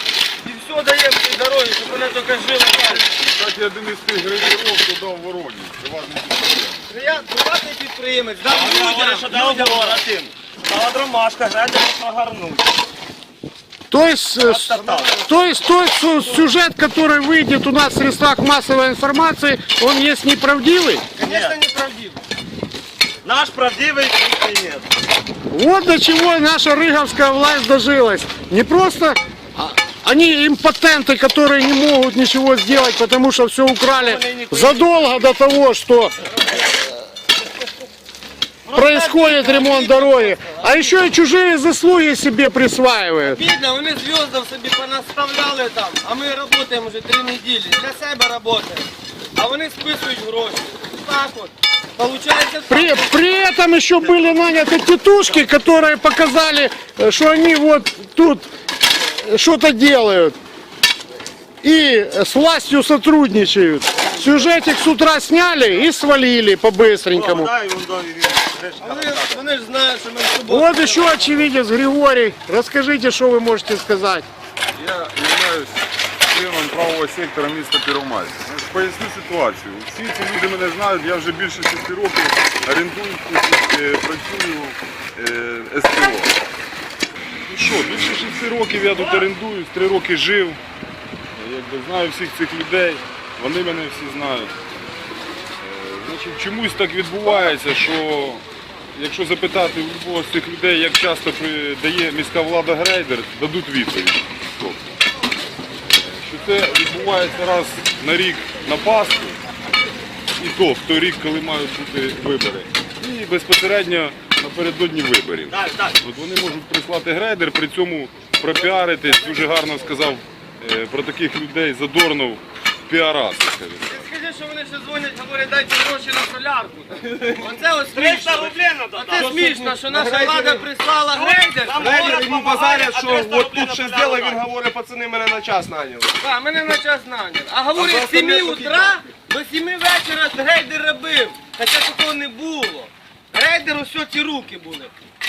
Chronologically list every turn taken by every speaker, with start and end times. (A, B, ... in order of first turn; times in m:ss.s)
0:00.4-0:03.0 A
0:03.0-0:06.9 B
0:06.9-0:10.0 A
0:08.5-0:12.7 C
0:13.9-0:21.0 D
0:14.4-0:15.4 C
0:21.2-0:22.2 A
0:21.2-0:21.5 C
0:23.2-0:24.9 C
0:25.5-0:36.1 D
0:33.9-0:35.2 C
0:38.6-0:41.0 A
0:38.7-0:43.4 D
0:43.3-0:53.1 A
0:52.7-1:00.4 D
1:01.6-1:07.5 D
1:07.1-1:09.4 C
1:08.8-1:11.5 A
1:10.4-1:14.2 D
1:14.7-1:26.3 B
1:27.5-1:30.6 B
1:31.4-1:34.5 B
1:35.6-1:38.4 B
1:38.9-1:44.9 B
1:45.8-1:49.4 B
1:50.4-2:04.0 B
1:55.5-1:56.0 C
1:58.5-1:59.1 C
2:03.9-2:12.2 A
2:07.5-2:09.4 C
2:09.1-2:10.6 E
2:11.1-2:14.4 C
2:11.7-2:16.1 E
2:16.2-2:24.9 A
2:17.8-2:18.9 E
2:17.9-2:18.1 C